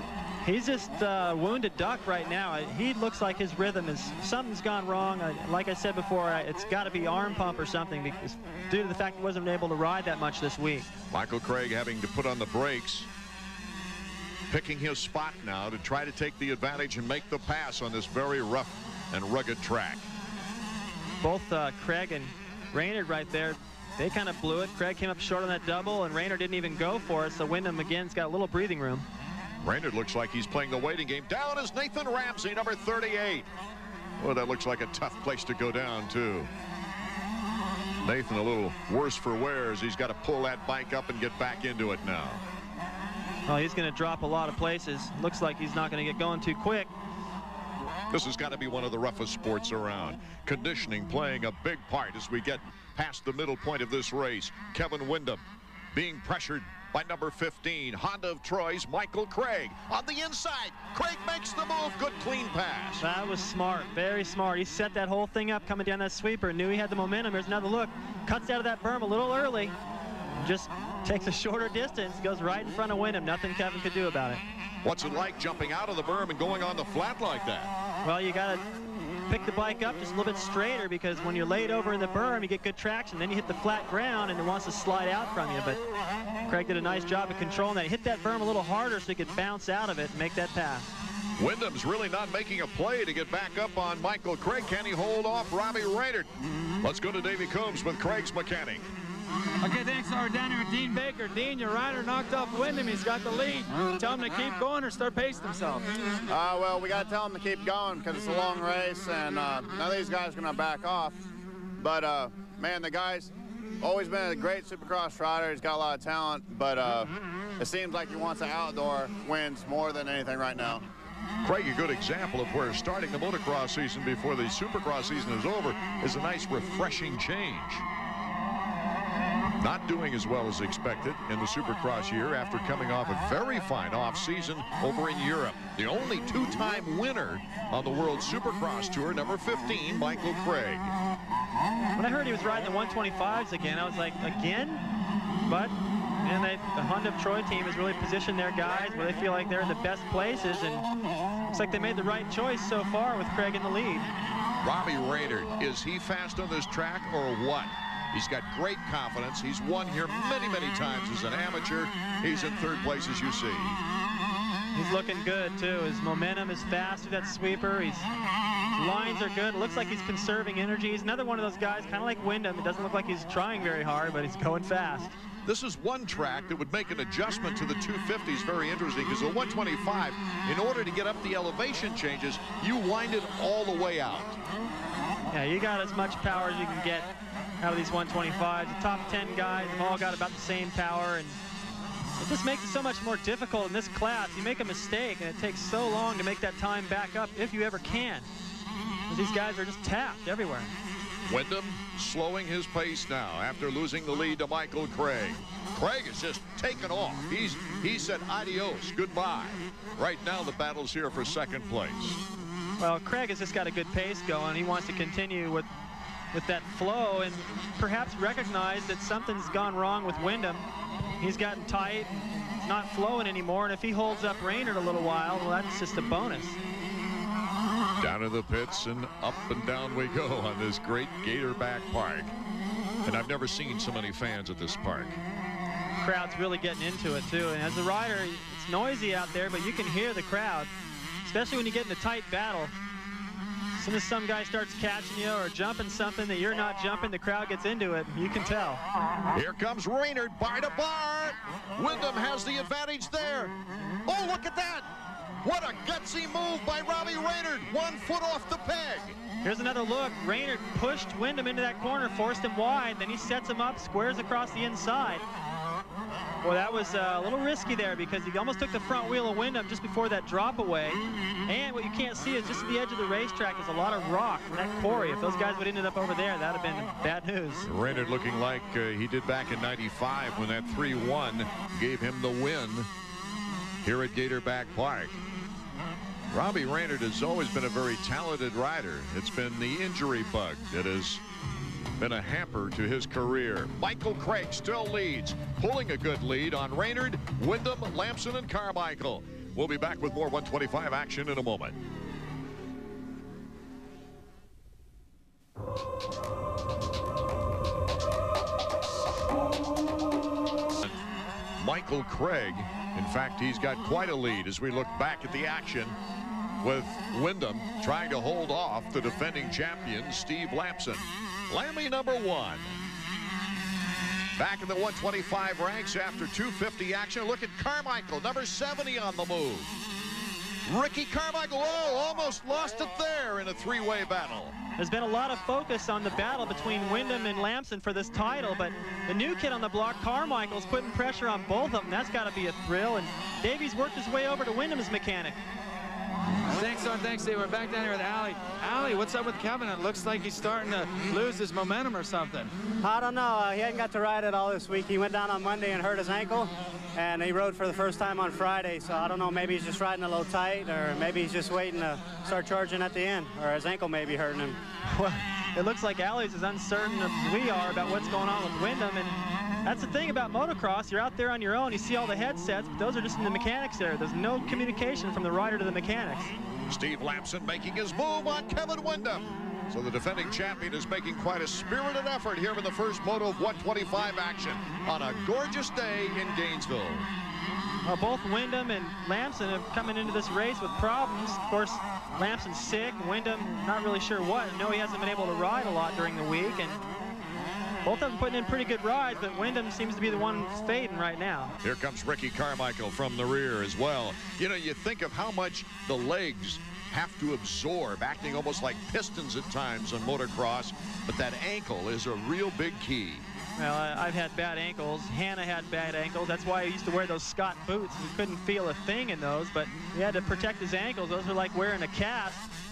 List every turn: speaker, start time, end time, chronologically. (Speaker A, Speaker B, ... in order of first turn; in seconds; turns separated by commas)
Speaker A: 0.4-10.9, Speaker B: 11.1-13.1, Speaker B: 14.5-20.1, Speaker A: 21.2-29.1, Speaker B: 29.6-33.5, Speaker B: 34.2-36.5, Speaker B: 38.0-42.4, Speaker A: 43.5-46.9, Speaker B: 48.1-63.0, Speaker A: 63.0-69.8, Speaker A: 70.4-74.4, Speaker B: 74.8-77.7, Speaker A: 78.0-78.6, Speaker A: 79.3-85.8, Speaker A: 86.5-90.9, Speaker B: 91.4-96.3, Speaker B: 96.8-98.9, Speaker C: 99.6-105.8, Speaker D: 106.3-111.2, Speaker D: 111.8-120.8, Speaker B: 121.4-127.8, Speaker B: 129.6-140.9, Speaker A: 141.9-144.8, Speaker A: 145.4-150.8, Speaker A: 151.5-154.1, Speaker B: 154.6-163.8, Speaker A: 164.7-168.1, Speaker A: 168.7-175.1, Speaker B: 175.4-184.4, Speaker A: 185.3-187.1, Speaker A: 187.6-191.4, Speaker A: 192.2-198.3, Speaker A: 199.1-200.7, Speaker B: 201.3-212.2, Speaker A: 212.8-215.7, Speaker A: 216.3-220.6, Speaker A: 221.2-226.6, Speaker B: 228.0-232.3, Speaker B: 233.0-235.2, Speaker A: 236.0-240.7, Speaker A: 241.2-242.7, Speaker A: 243.8-248.8, Speaker B: 249.3-253.5, Speaker B: 254.1-254.9, Speaker B: 255.4-259.2, Speaker A: 259.4-265.2, Speaker A: 266.4-277.7, Speaker B: 277.6-282.9, Speaker B: 283.8-285.2, Speaker B: 286.3-291.2, Speaker B: 292.0-301.8, Speaker B: 311.6-315.9, Speaker B: 316.6-322.7, Speaker B: 324.4-329.7, Speaker B: 330.6-334.6, Speaker A: 334.8-345.4, Speaker C: 346.5-352.5, Speaker E: 352.8-364.6, Speaker A: 364.9-369.1, Speaker A: 369.6-376.3, Speaker B: 376.7-387.1, Speaker A: 387.9-396.8, Speaker A: 397.8-401.5, Speaker B: 401.6-413.2, Speaker A: 413.6-422.4